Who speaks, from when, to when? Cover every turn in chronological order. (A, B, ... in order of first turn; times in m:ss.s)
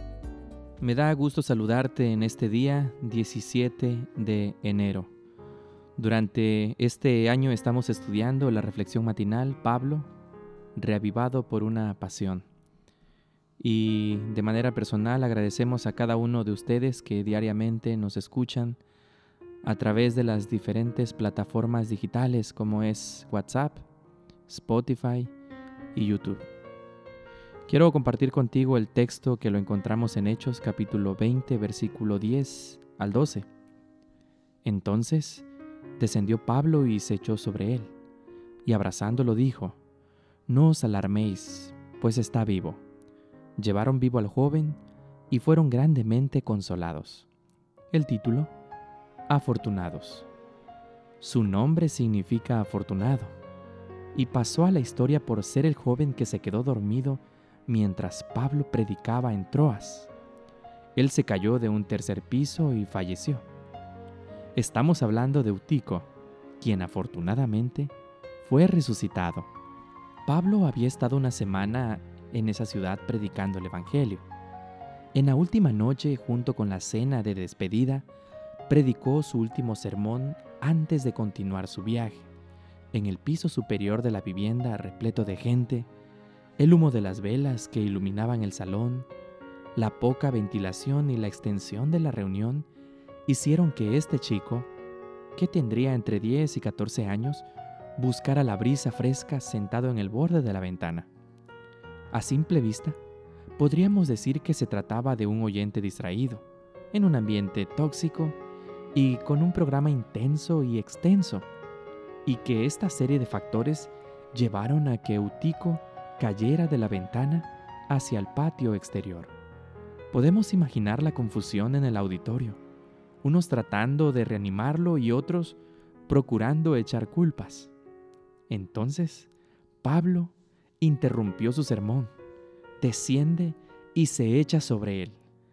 0:00.8-0:05.1 A
0:06.0-0:10.1 A
0:10.8-0:12.4 A
0:13.6-0:18.8 A
0:19.6-0:23.8 A
0:24.5-0:25.3 A
0:25.9-0:26.4 A
0:27.7-0:33.5 A
0:34.6-0:35.4 A
0:36.0-0:37.9 A
0:38.6-0:39.8 A
0:40.5-0:42.8 A
0:43.6-0:47.3 A
0:47.9-0:48.5 A
0:49.3-0:50.3 A
0:51.2-0:53.4 A
0:54.1-1:00.1 A
1:01.0-1:03.4 A
1:04.6-1:09.5 A
1:10.2-1:14.2 A
1:15.1-1:18.1 A
1:18.7-1:22.3 A
1:22.9-1:25.9 A
1:26.6-1:29.1 A
1:29.7-1:32.7 A
1:33.3-1:34.7 A
1:35.4-1:37.4 A
1:38.0-1:41.1 A
1:42.1-1:43.0 A
1:43.6-1:48.4 A
1:48.9-1:51.5 A
1:52.2-1:59.3 A
2:00.1-2:02.6 A
2:03.2-2:07.7 A
2:08.5-2:09.3 A
2:09.8-2:12.1 A
2:12.8-2:15.2 A